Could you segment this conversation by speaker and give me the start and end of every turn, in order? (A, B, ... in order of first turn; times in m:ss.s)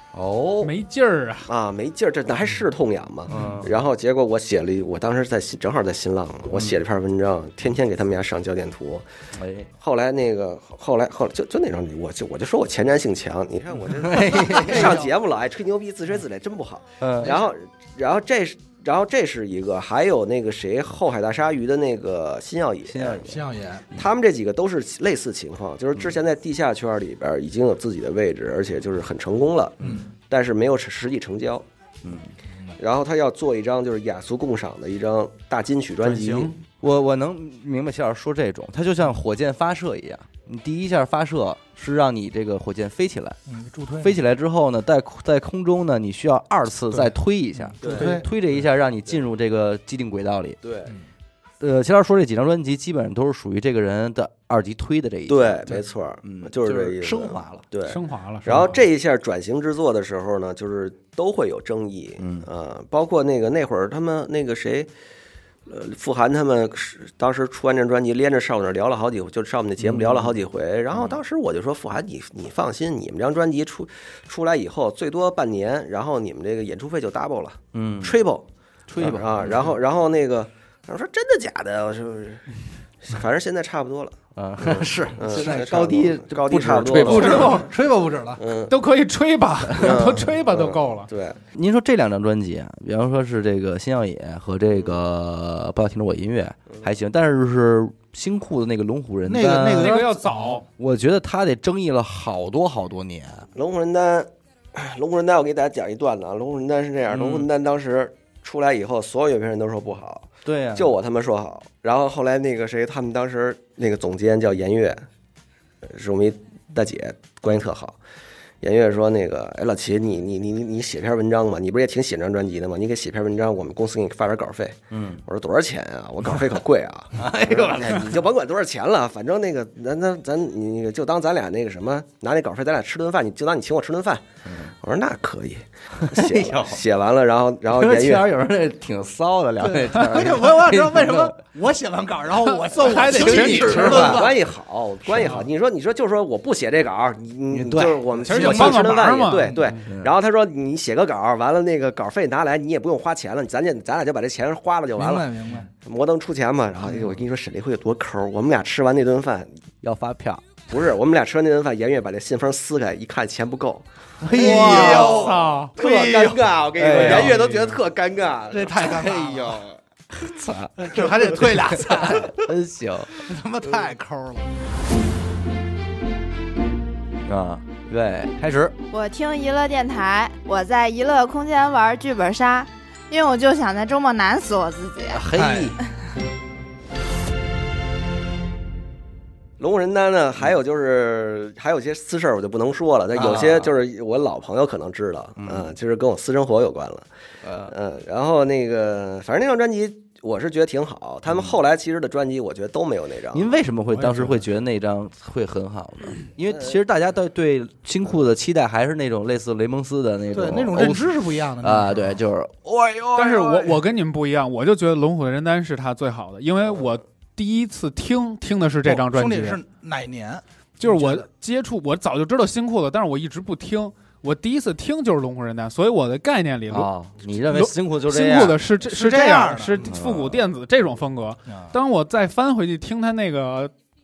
0:00.1-0:00.7 A
0:00.6-0:01.5 B
0:01.5-0:09.0 C
0:03.3-0:03.7 A
0:09.3-0:09.7 A
0:09.8-0:23.4 C
0:13.8-0:15.0 A
0:14.7-0:15.0 D
0:17.0-0:17.4 A
0:22.8-0:23.4 A
0:23.2-0:23.8 D
0:23.9-0:31.6 C
0:32.0-0:32.3 A
0:32.8-0:36.5 C
0:36.0-0:36.5 B
0:36.8-0:43.4 A
0:43.5-0:44.2 D
0:44.0-0:50.6 A
0:47.8-0:48.2 D
0:47.8-0:48.2 C
0:50.6-0:50.9 C
0:51.6-0:57.6 A
0:55.3-1:04.9 C
0:57.8-0:58.7 B
1:02.2-1:02.5 A
1:05.7-1:22.4 C
1:09.8-1:10.4 A
1:17.7-1:18.2 A
1:18.9-1:19.7 A
1:23.0-1:27.6 C
1:24.4-1:27.6 A
1:25.3-1:25.8 D
1:27.0-1:28.4 D
1:27.0-1:27.7 B
1:28.4-1:28.8 C
1:28.7-1:31.1 B
1:29.8-1:31.4 C
1:31.5-1:43.5 A
1:39.2-1:40.2 D
1:39.7-1:40.6 B
1:43.5-1:55.0 C
1:47.1-1:47.5 A
1:50.4-1:50.9 A
1:55.8-1:58.0 C
1:58.6-2:18.3 C
2:04.9-2:05.2 A
2:07.2-2:08.2 A
2:14.4-2:14.7 A
2:16.0-2:16.8 A
2:17.7-2:21.4 A
2:19.6-2:24.4 D
2:22.4-2:24.2 B
2:23.0-2:24.3 A
2:23.8-2:35.3 C
2:27.5-2:28.0 A
2:28.2-2:28.9 D
2:28.2-2:29.8 B
2:29.8-2:30.1 A
2:35.0-2:35.7 D
2:35.8-2:39.6 C
2:39.8-2:40.4 A
2:40.7-2:43.8 C
2:44.2-2:45.4 A
2:44.3-2:47.6 D
2:44.3-2:45.7 B
2:45.8-2:49.0 C
2:46.8-2:47.5 A
2:48.5-2:49.6 D
2:48.8-2:53.1 A
2:50.8-2:52.4 D
2:53.2-2:54.5 D
2:57.2-2:58.8 A
2:58.9-3:05.3 E
3:05.1-3:05.8 A
3:05.3-3:05.7 D
3:09.6-3:17.1 C
3:13.1-3:13.7 A
3:15.4-3:15.7 A
3:17.4-3:17.7 A
3:17.6-3:23.5 C
3:23.3-3:33.8 A
3:30.3-3:32.2 D
3:33.1-3:39.6 B
3:38.8-3:41.2 D
3:40.8-3:53.7 B
3:46.7-3:48.6 A
3:48.8-3:49.9 D
3:49.8-3:50.4 A
3:51.5-3:51.7 D